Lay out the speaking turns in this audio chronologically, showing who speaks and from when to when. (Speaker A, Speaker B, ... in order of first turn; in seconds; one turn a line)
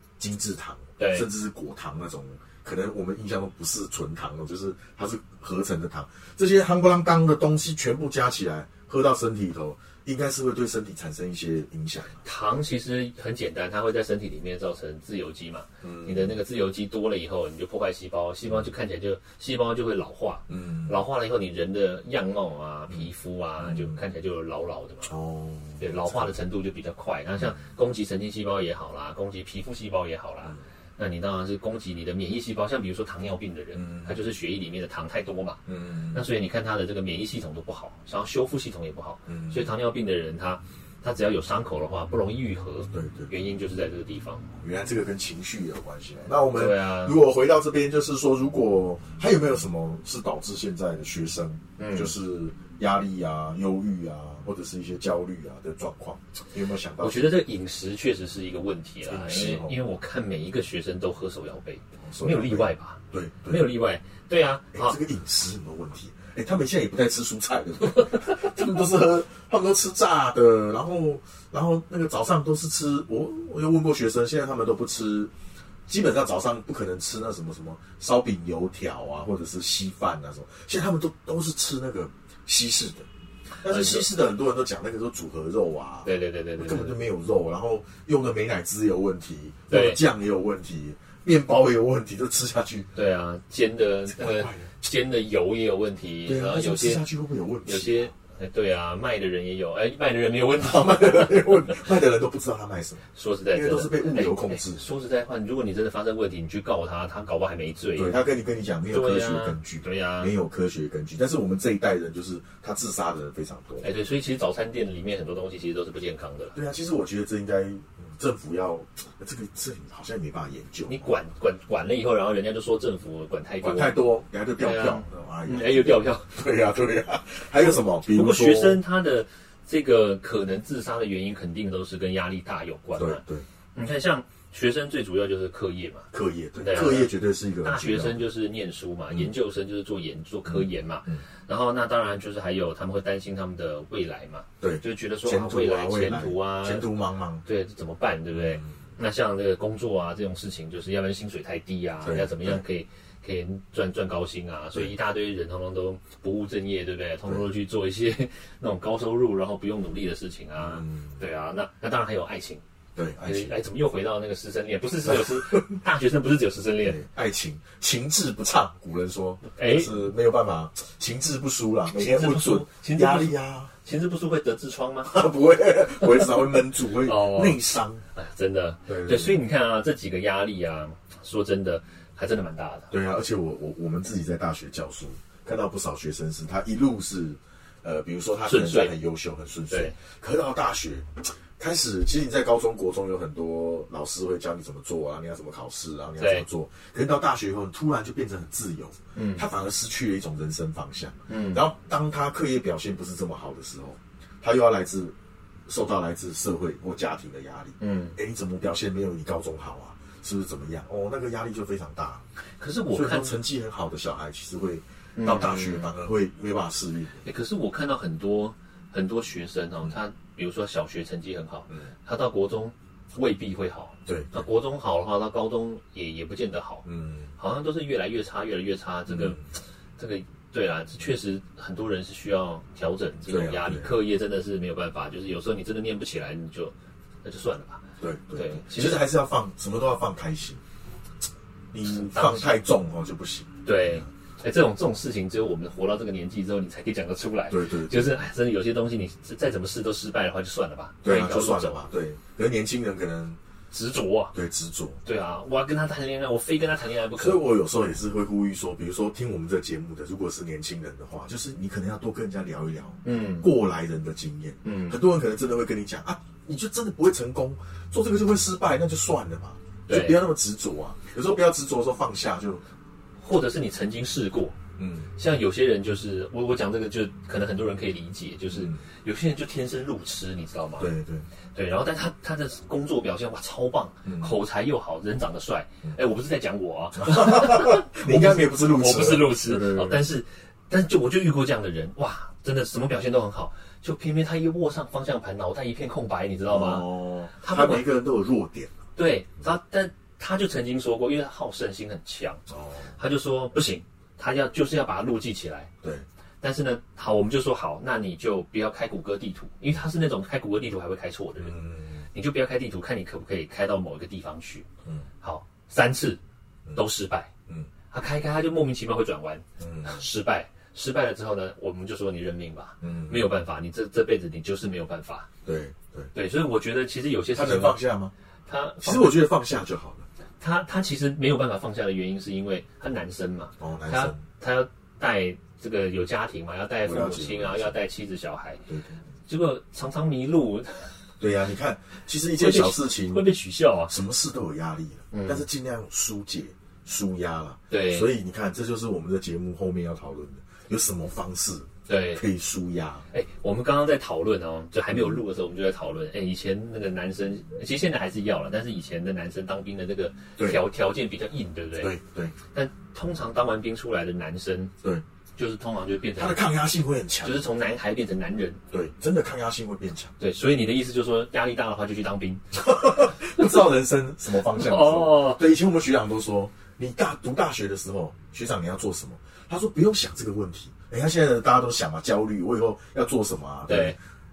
Speaker A: 0.2-12.2
Speaker B: 1.0-1.2
Speaker B: 12.2-25.1
Speaker A: 15.8-16.4
Speaker A: 20.5-21.0
Speaker A: 23.6-24.0
Speaker A: 25.1-26.3
Speaker B: 25.8-44.5
Speaker A: 27.4-27.7
Speaker A: 33.8-34.1
Speaker A: 35.7-36.2
Speaker A: 39.3-39.7
Speaker A: 42.9-43.3
Speaker A: 44.6-57.3
Speaker B: 46.5-47.2
Speaker B: 51.8-52.1
Speaker B: 57.0-65.0
Speaker A: 59.0-59.8
Speaker A: 62.0-63.7
Speaker A: 64.7-75.3
Speaker A: 75.9-83.1
Speaker A: 83.6-92.9
Speaker B: 83.6-84.1
Speaker B: 86.0-87.0
Speaker B: 89.7-90.0
Speaker B: 92.9-97.0
Speaker A: 94.1-94.7
Speaker A: 96.2-98.1
Speaker B: 97.7-101.8
Speaker A: 100.6-104.8
Speaker B: 103.1-108.2
Speaker A: 108.0-113.9
Speaker B: 108.9-110.3
Speaker B: 113.8-116.6
Speaker A: 116.5-121.2
Speaker B: 120.9-124.0
Speaker A: 123.6-128.8
Speaker B: 124.6-126.3
Speaker B: 127.6-133.2
Speaker A: 132.9-133.4
Speaker B: 133.7-146.8
Speaker A: 136.1-138.2
Speaker A: 140.5-141.2
Speaker A: 144.6-147.4
Speaker B: 147.4-162.6
Speaker A: 148.3-148.7
Speaker A: 152.0-152.6
Speaker A: 160.6-161.2
Speaker A: 162.9-163.6
Speaker B: 163.2-167.0
Speaker A: 165.1-165.8
Speaker A: 166.8-173.7
Speaker B: 169.5-169.9
Speaker B: 171.9-175.2
Speaker A: 175.1-178.0
Speaker B: 177.0-177.6
Speaker B: 178.1-182.9
Speaker A: 178.8-179.4
Speaker A: 182.9-205.2
Speaker B: 188.4-188.9
Speaker B: 189.7-189.9
Speaker B: 196.2-196.4
Speaker B: 199.2-199.4
Speaker B: 201.3-201.6
Speaker A: 205.7-212.2
Speaker B: 207.8-208.2
Speaker B: 212.6-213.3
Speaker A: 212.9-217.2
Speaker B: 215.2-215.9
Speaker B: 217.2-226.8
Speaker A: 224.1-224.5
Speaker A: 226.8-227.3
Speaker B: 227.4-229.4
Speaker A: 229.1-229.4
Speaker B: 230.0-239.0
Speaker A: 233.3-233.9
Speaker A: 238.0-240.6
Speaker A: 241.7-244.1
Speaker B: 241.8-242.6
Speaker B: 243.7-251.8
Speaker A: 247.5-248.1
Speaker A: 251.0-253.4
Speaker B: 253.7-254.3
Speaker A: 254.3-255.0
Speaker B: 255.0-257.4
Speaker A: 257.2-272.6
Speaker B: 263.0-263.5
Speaker B: 264.6-265.0
Speaker B: 269.9-270.2
Speaker B: 273.2-274.6
Speaker A: 274.8-275.1
Speaker B: 275.2-280.9
Speaker A: 278.5-278.8
Speaker A: 280.8-281.3
Speaker B: 281.5-297.9
Speaker A: 284.1-284.3
Speaker A: 287.0-290.1
Speaker A: 296.5-298.8
Speaker B: 298.9-302.4
Speaker A: 302.5-302.9
Speaker B: 302.9-305.7
Speaker B: 306.4-314.7
Speaker A: 311.4-312.1
Speaker B: 315.2-316.2
Speaker B: 316.7-317.3
Speaker B: 317.9-325.3
Speaker A: 319.6-320.0
Speaker A: 322.8-323.3
Speaker A: 325.4-326.1
Speaker B: 326.1-327.8
Speaker A: 327.3-328.1
Speaker B: 328.5-329.2
Speaker A: 328.8-330.1
Speaker B: 330.4-338.6
Speaker A: 333.6-334.2
Speaker A: 336.8-337.8
Speaker A: 338.7-339.0
Speaker B: 339.2-341.0
Speaker A: 341.2-343.2
Speaker B: 342.4-343.9
Speaker A: 343.9-353.1
Speaker B: 345.1-345.4
Speaker B: 347.7-348.1
Speaker B: 351.9-352.2
Speaker B: 353.1-361.9
Speaker A: 354.9-355.2
Speaker A: 361.8-362.3
Speaker B: 362.5-364.7
Speaker B: 365.4-366.4
Speaker A: 366.2-367.5
Speaker B: 367.2-368.6
Speaker A: 368.7-370.1
Speaker B: 370.2-373.4
Speaker A: 372.6-384.0
Speaker B: 374.4-375.4
Speaker B: 383.7-384.0